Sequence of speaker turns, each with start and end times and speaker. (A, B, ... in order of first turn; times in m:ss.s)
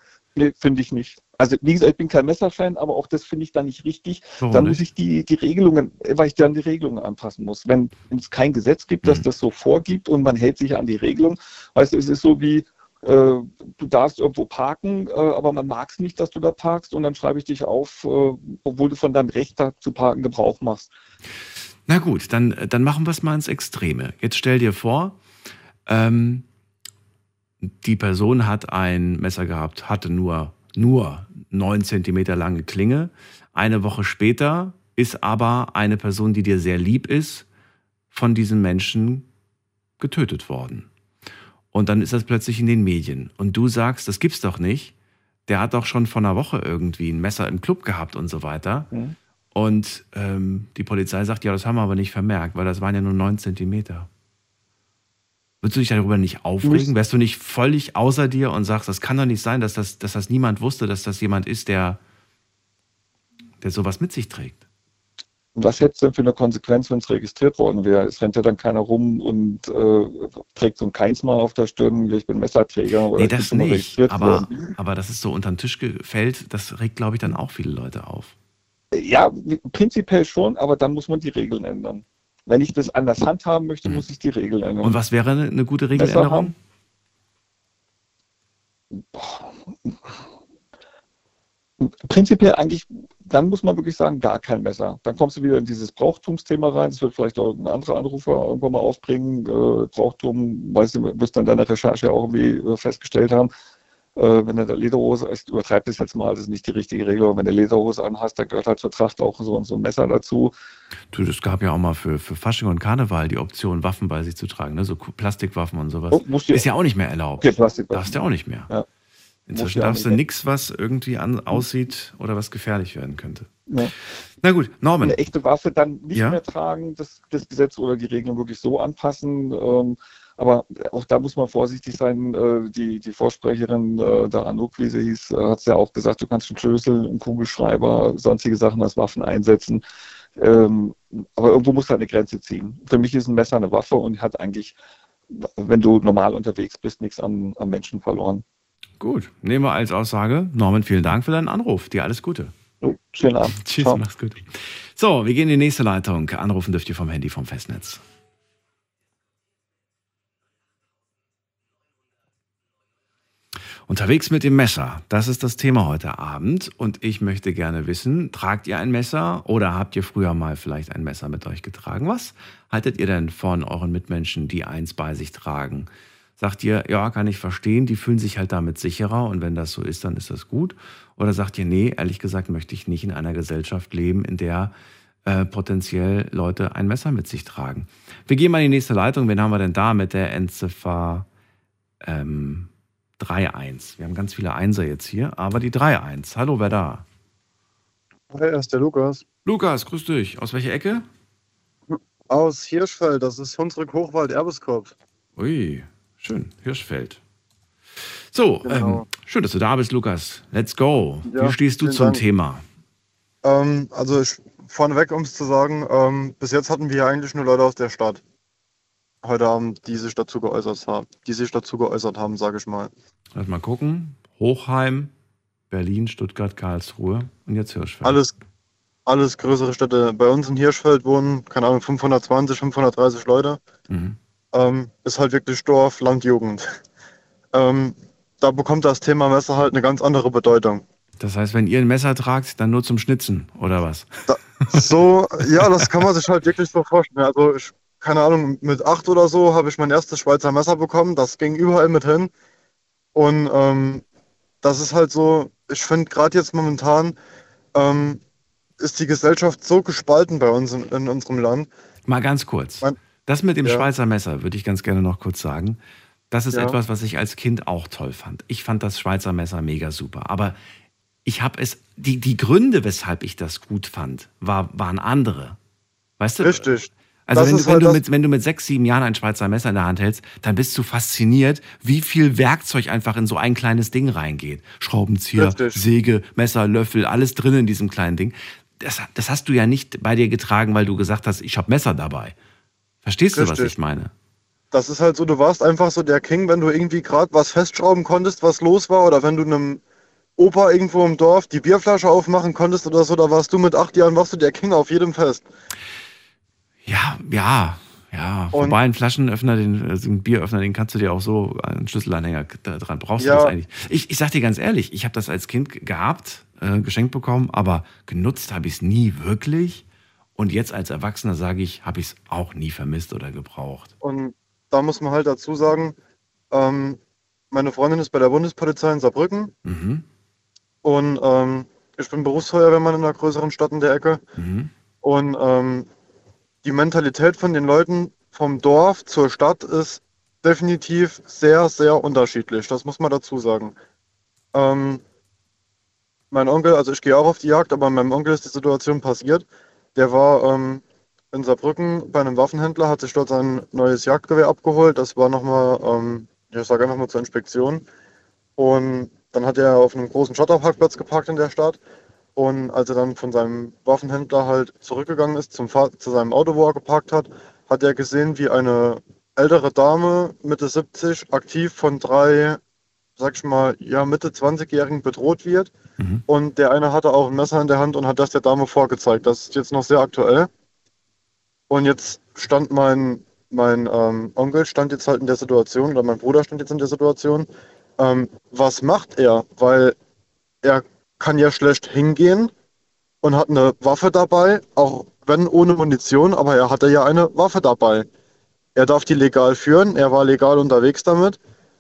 0:00.4-0:20.9 A
0:04.4-0:04.8 B
0:21.9-0:25.2 B
0:25.9-0:26.5 B
0:27.6-0:37.5 B
0:38.1-0:39.3 B
0:40.0-0:40.9 B
0:41.7-0:44.9 B
0:45.5-0:48.9 B
0:49.5-0:54.1 B
0:55.6-1:02.0 B
0:56.6-0:56.9 A
1:03.6-1:04.6 B
1:05.6-1:14.7 A
1:13.2-1:18.3 B
1:18.9-1:25.0 A
1:24.8-1:26.6 B
1:26.0-1:26.5 A
1:28.9-1:30.2 A
1:31.8-1:43.5 A
1:44.2-1:50.5 A
1:51.1-1:58.7 B
1:56.1-1:56.6 A
1:57.4-1:58.2 A
1:59.5-2:05.2 B
1:59.5-2:00.2 A
2:03.7-2:03.9 A
2:05.0-2:19.8 A
2:06.1-2:06.4 B
2:20.4-2:24.8 A
2:25.3-2:28.4 A
2:29.0-2:32.5 B
2:32.8-2:34.0 A
2:33.6-2:38.0 B
2:43.9-3:04.7 B
3:05.2-3:11.3 B
3:12.0-3:17.1 B
3:18.3-3:19.2 C
3:19.4-3:21.1 B
3:21.9-3:25.0 C
3:25.4-3:27.2 B
3:28.3-3:32.6 B
3:28.6-3:29.1 C
3:31.3-3:32.2 C
3:33.4-3:38.2 C
3:39.2-3:42.9 C
3:43.3-3:45.1 B
3:45.7-3:48.2 B
3:48.0-3:48.3 C
3:49.1-3:53.6 C
3:53.9-3:54.2 B
3:54.5-3:56.7 C
3:57.5-4:00.8 C
4:01.2-4:04.9 B
4:04.3-4:12.3 C
4:13.2-4:14.0 C
4:14.6-4:17.2 C
4:17.8-4:18.2 C
4:18.8-4:21.7 C
4:22.1-4:30.6 B
4:31.2-4:35.6 B
4:36.2-4:36.7 B
4:36.4-4:38.0 C
4:37.3-4:52.4 B
4:45.4-4:45.8 C
4:53.0-4:54.1 B
4:53.3-4:53.7 C
4:54.7-4:59.8 C
5:00.4-5:05.5 C
5:06.8-5:19.8 B
5:08.5-5:08.8 C
5:13.2-5:13.5 C
5:20.4-5:23.9 B
5:24.0-5:26.0 C
5:26.5-5:27.0 C
5:27.5-5:29.5 C
5:29.6-5:30.0 B
5:30.8-5:34.2 C
5:34.4-5:34.7 B
5:35.0-5:35.9 C
5:36.6-5:43.8 C
5:44.5-5:45.0 C
5:46.3-5:49.4 C
5:50.0-5:57.9 C
5:58.6-6:01.8 C
6:02.4-6:12.6 C
6:13.2-6:15.7 C
6:16.3-6:20.5 C
6:21.7-6:30.0 C
6:30.6-6:32.5 C
6:33.2-6:38.1 C
6:38.8-6:41.4 C